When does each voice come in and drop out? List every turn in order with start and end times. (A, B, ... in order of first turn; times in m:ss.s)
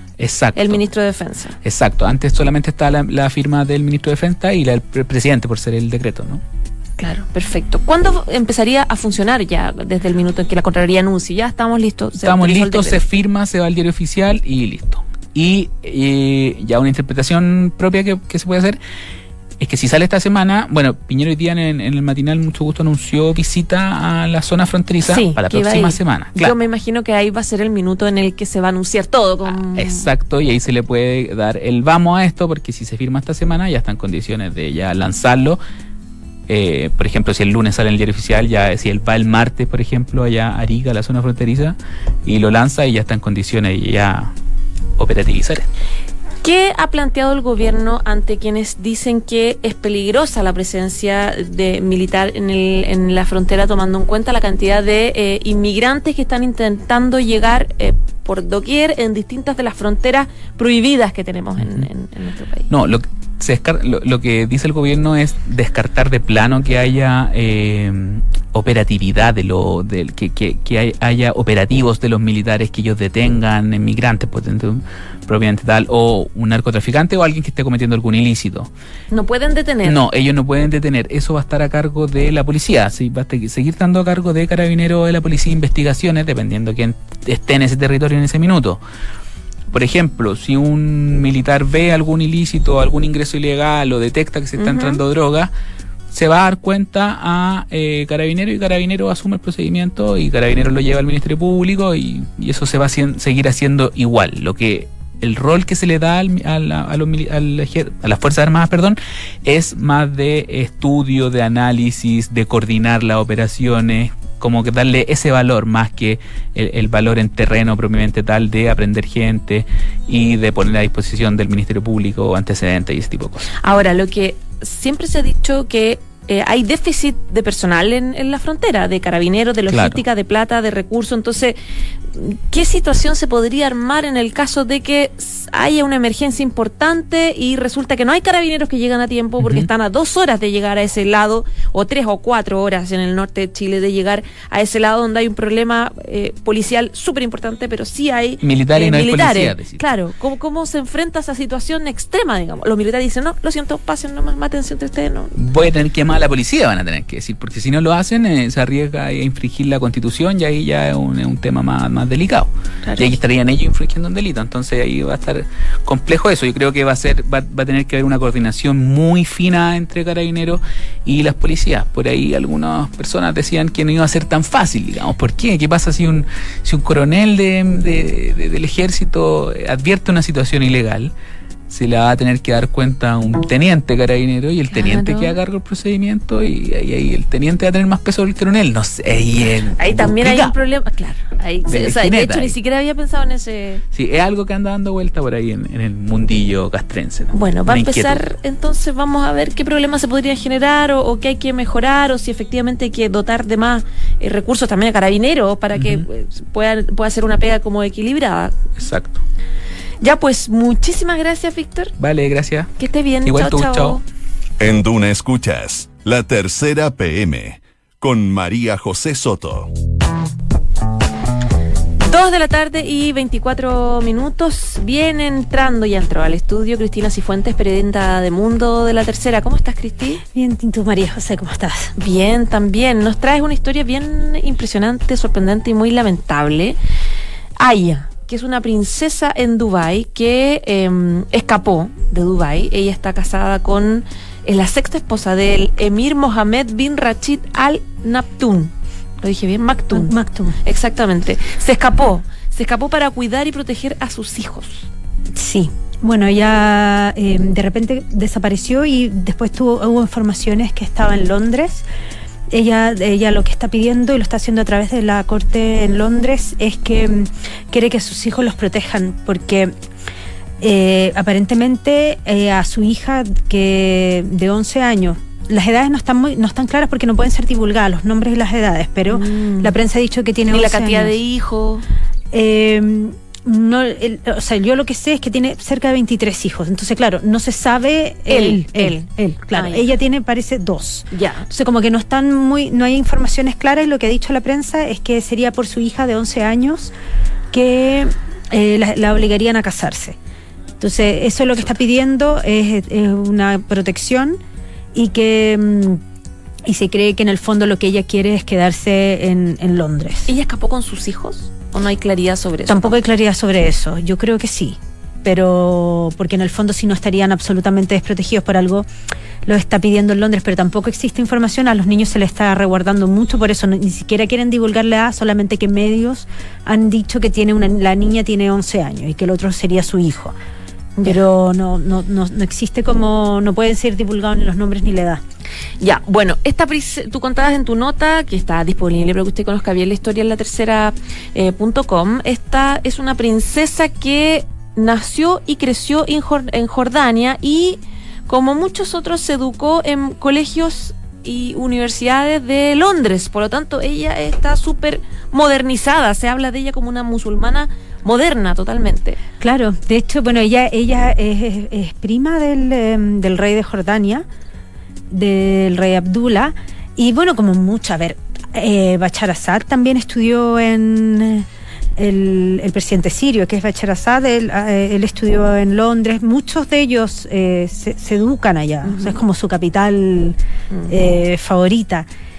0:00.2-0:00.8 A
0:00.5-0:01.6 B
0:01.6-0:06.4 A
0:07.0-0:13.0 B
0:12.2-0:18.8 A
0:19.6-0:26.5 A
0:25.1-0:30.0 B
0:29.7-0:35.6 A
0:36.5-0:44.3 A
0:45.0-0:45.7 A
0:46.4-1:02.7 B
1:02.7-1:18.7 A
1:19.1-1:20.0 B
1:19.8-1:28.8 A
1:29.7-1:35.5 A
1:34.6-1:35.0 B
1:36.1-2:03.5 A
2:03.6-2:11.6 B
2:09.7-2:10.0 A
2:12.1-2:35.4 B
2:28.4-2:29.8 A
2:35.4-3:01.1 A
3:01.7-3:10.5 A
3:04.7-3:05.4 B
3:09.8-3:13.8 B
3:11.7-3:12.5 A
3:13.9-3:18.2 A
3:17.3-3:28.6 B
3:25.8-3:26.0 A
3:28.8-3:29.2 A
3:30.0-3:31.9 B
3:32.0-3:32.7 A
3:32.8-3:34.0 B
3:33.2-3:34.0 A
3:34.6-3:39.7 C
3:42.0-3:50.2 B
3:50.3-3:51.9 D
3:52.0-3:56.8 B
3:57.6-4:14.9 B
4:09.9-4:10.6 D
4:15.3-4:21.8 D
4:22.5-4:29.7 D
4:30.6-4:41.1 D
4:39.1-4:39.7 B
4:40.5-4:41.8 B
4:42.3-4:56.9 D
4:48.3-4:49.9 B
4:51.1-4:51.5 B
4:57.5-5:00.2 D
5:00.8-5:04.4 D
5:04.9-5:06.0 D
5:06.6-5:10.3 D
5:10.3-5:13.0 B
5:12.7-5:18.9 D
5:19.4-5:30.3 D
5:31.0-5:35.2 D
5:35.8-5:59.2 B
5:59.4-6:04.2 D
6:05.1-6:11.4 D
6:12.0-6:20.4 D
6:18.8-6:19.2 B
6:20.9-6:22.1 D